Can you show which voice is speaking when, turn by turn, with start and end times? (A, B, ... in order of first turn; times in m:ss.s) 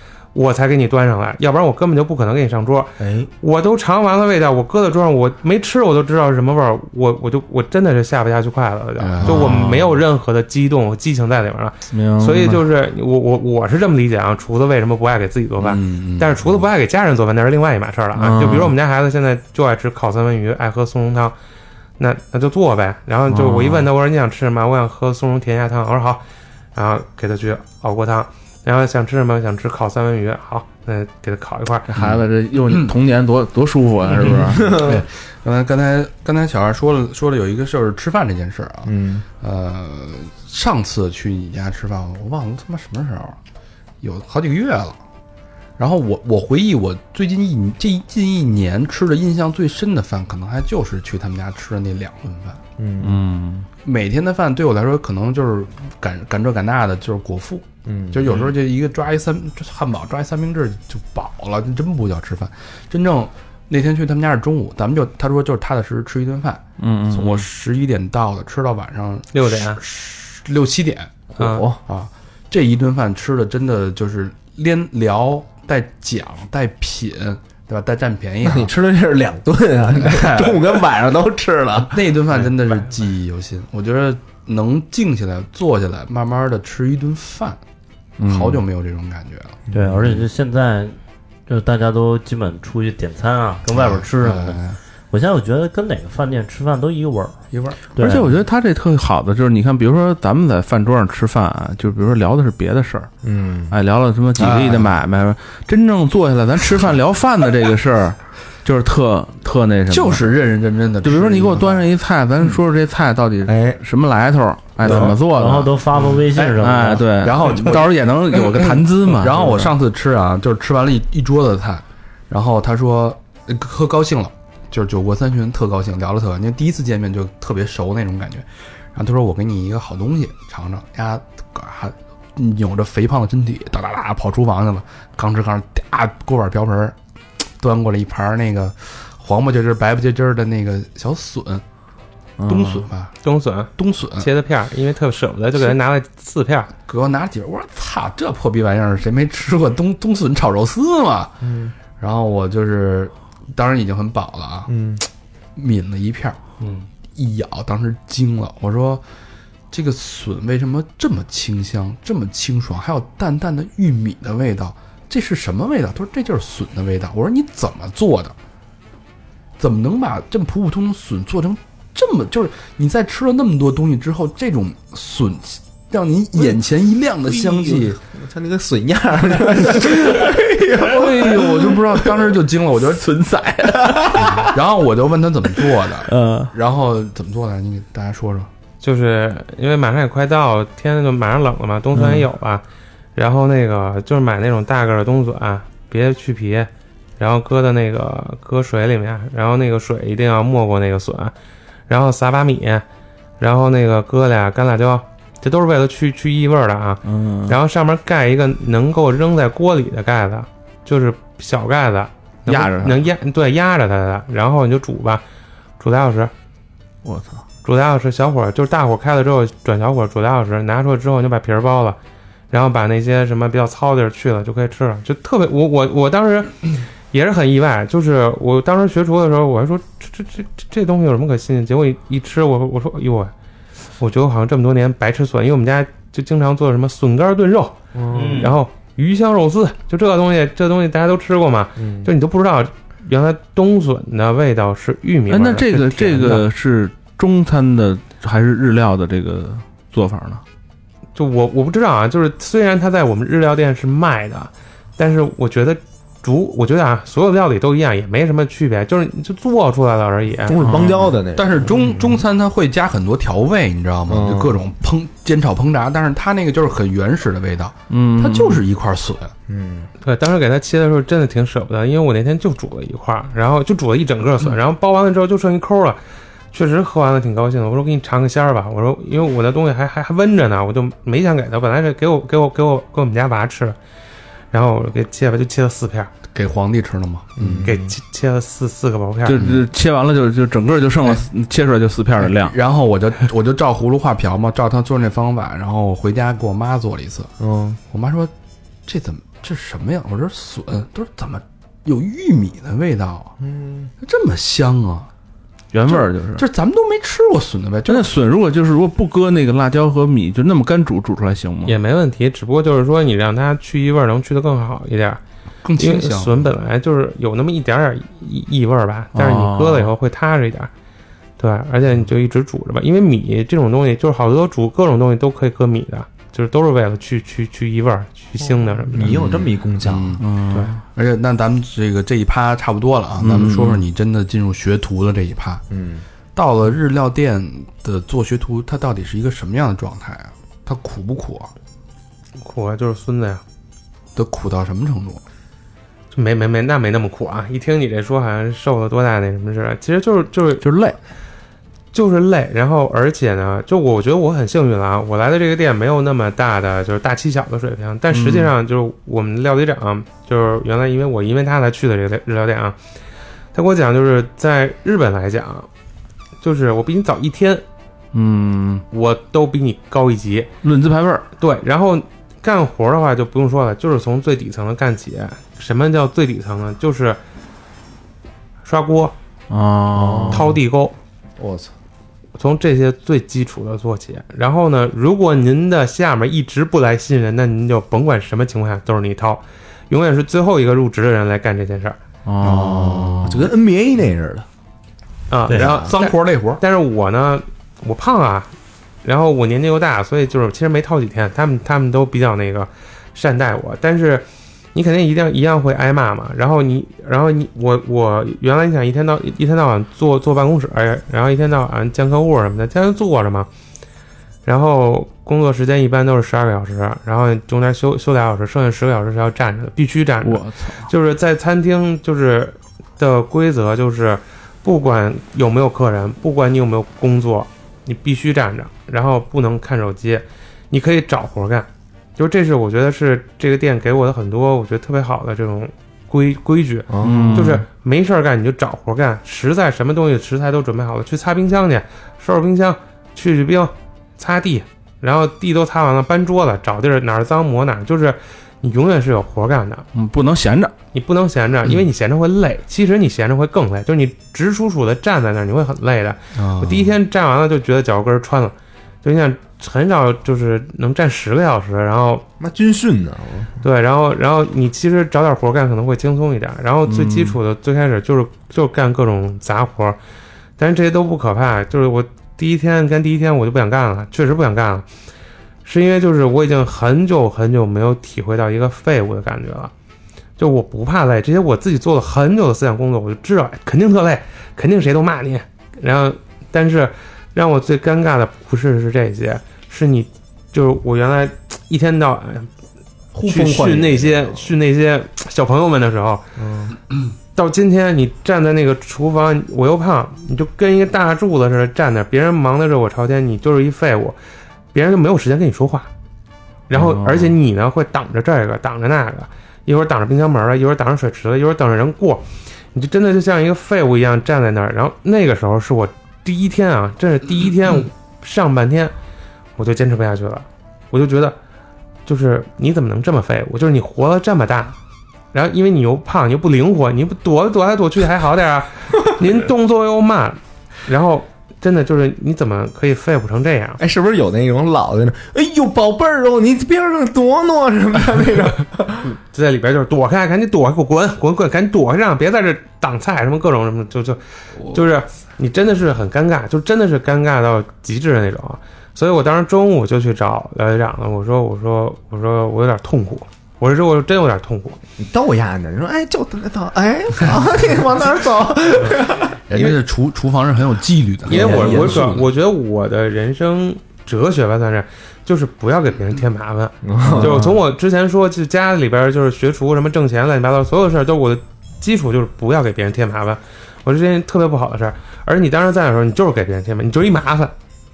0:00.3-0:21.3 A
0:03.0-0:03.3 B
0:09.0-0:09.9 C
0:09.2-0:09.7 D
0:11.9-0:12.6 D
0:15.6-0:16.7 C
0:18.2-0:18.7 D
0:22.0-0:26.2 A
0:23.3-0:23.9 D
0:26.7-0:31.9 A
0:31.9-0:34.9 D
0:31.9-0:32.9 C
0:34.1-0:43.4 C
0:34.5-0:35.0 B
0:38.9-0:39.2 B
0:44.0-0:45.0 C
0:45.8-0:52.6 C
0:52.8-0:53.2 B
0:53.0-0:53.7 D
0:53.8-1:18.7 C
0:57.8-0:58.3 B
1:06.8-1:07.4 D
1:09.3-1:09.8 A
1:11.4-1:11.7 A
1:11.4-1:11.8 B
1:18.4-1:22.0 B
1:19.9-1:20.8 C
1:21.8-1:27.6 C
1:28.2-1:28.6 D
1:28.2-1:29.6 C
1:29.7-1:31.0 E
1:31.5-1:37.4 E
1:33.7-1:34.8 C
1:37.5-1:37.8 C
1:38.0-1:38.3 E
1:38.0-1:43.1 D
1:43.2-1:43.7 B
1:43.7-1:50.3 D
1:44.4-1:45.0 C
1:49.9-1:51.9 C
1:51.0-1:59.7 D
1:53.5-1:53.8 B
1:54.8-1:55.1 B
1:54.9-1:57.1 E
1:56.3-2:17.0 C
2:17.6-2:21.6 C
2:22.4-2:22.8 D
2:22.4-2:23.1 C
2:23.2-2:26.7 A
2:23.8-2:24.3 C
2:26.9-2:31.4 C
2:31.4-2:31.7 B
2:32.0-2:34.7 C
2:34.7-2:35.0 B
2:35.6-2:36.4 C
2:37.1-2:39.0 C
2:39.7-2:48.3 C
2:49.6-2:58.0 C
2:57.3-3:02.2 B
2:59.8-3:03.1 C
3:03.0-3:04.5 D
3:03.7-3:04.5 B
3:04.1-3:08.5 C
3:08.8-3:12.6 A
3:11.9-3:12.2 D
3:13.2-3:21.3 A
3:21.9-3:22.8 A
3:23.4-3:35.2 A
3:27.0-3:27.6 D
3:32.5-3:33.0 D
3:35.8-3:36.3 A
3:37.0-3:37.4 D
3:37.6-3:42.0 A
3:42.5-3:53.3 A
3:54.0-4:06.4 A
3:57.9-3:58.4 B
3:58.1-3:58.5 E
4:01.8-4:02.1 B
4:05.3-4:10.4 D
4:11.1-4:20.6 A
4:20.5-4:22.2 B
4:20.5-4:21.2 D
4:21.3-4:29.3 C
4:24.1-4:24.5 B
4:27.9-4:28.6 D
4:29.5-4:29.9 B
4:30.0-4:36.0 A
4:36.5-4:43.8 A
4:44.5-4:46.1 A
4:46.3-4:47.7 C
4:47.4-4:47.9 B
4:47.6-4:49.4 A
4:49.2-4:52.5 D
4:49.3-4:49.6 C
4:52.2-4:57.3 C
4:57.4-4:57.8 B
4:57.9-4:58.3 C
4:58.8-5:03.3 C
5:03.4-5:03.9 B
5:04.0-5:05.1 C
5:05.7-5:06.4 D
5:05.9-5:08.1 C
5:07.9-5:11.8 D
5:11.6-5:15.2 A
5:15.6-5:16.5 C
5:15.8-5:20.7 A
5:19.1-5:19.9 D
5:21.4-5:29.2 A
5:28.9-5:30.2 B
5:29.1-5:30.2 C
5:30.2-5:30.8 D
5:30.9-5:35.6 C
5:33.2-5:33.8 D
5:35.7-5:36.0 B
5:36.3-5:41.5 C
5:42.4-5:43.4 A
5:44.1-5:45.2 C
5:46.1-5:50.6 A
5:50.6-5:51.0 D
5:51.9-6:02.8 A
5:58.1-5:58.5 D
6:03.5-6:05.7 A
6:06.4-6:07.6 A
6:08.1-6:08.8 D
6:08.9-6:10.5 A
6:10.6-6:11.2 D
6:11.4-6:17.2 A
6:18.6-6:19.1 A
6:19.5-6:20.5 D
6:19.9-6:20.6 B
6:20.3-6:21.0 A
6:21.4-6:21.7 B
6:22.4-6:32.0 A
6:32.2-6:33.5 D
6:32.4-6:33.2 C
6:32.5-6:34.4 B
6:35.3-6:38.5 A
6:35.5-6:36.6 C
6:35.6-6:35.9 B
6:39.0-6:53.5 A
6:54.4-7:29.8 A
7:00.2-7:00.9 D
7:16.9-7:17.5 B
7:17.0-7:17.6 D
7:29.9-7:30.7 D
7:30.9-7:42.2 A
7:36.3-7:36.9 C
7:42.4-7:43.5 B
7:43.6-7:50.0 A
7:46.9-7:47.4 D
7:50.6-7:54.8 A
7:55.6-7:59.7 A
8:00.4-8:12.5 A
8:13.1-8:14.3 B
8:13.2-8:16.2 A
8:16.4-8:16.8 B
8:17.4-8:24.2 A
8:24.7-8:25.9 A
8:26.7-8:38.9 A
8:26.7-8:27.3 D
8:39.6-8:41.4 A
8:42.0-8:44.7 A
8:45.3-8:53.8 A
8:53.8-8:59.1 B
8:59.3-9:14.8 A
9:15.0-9:19.8 B
9:19.5-9:22.3 C
9:21.2-9:37.5 A
9:21.3-9:22.1 B
9:26.8-9:27.5 B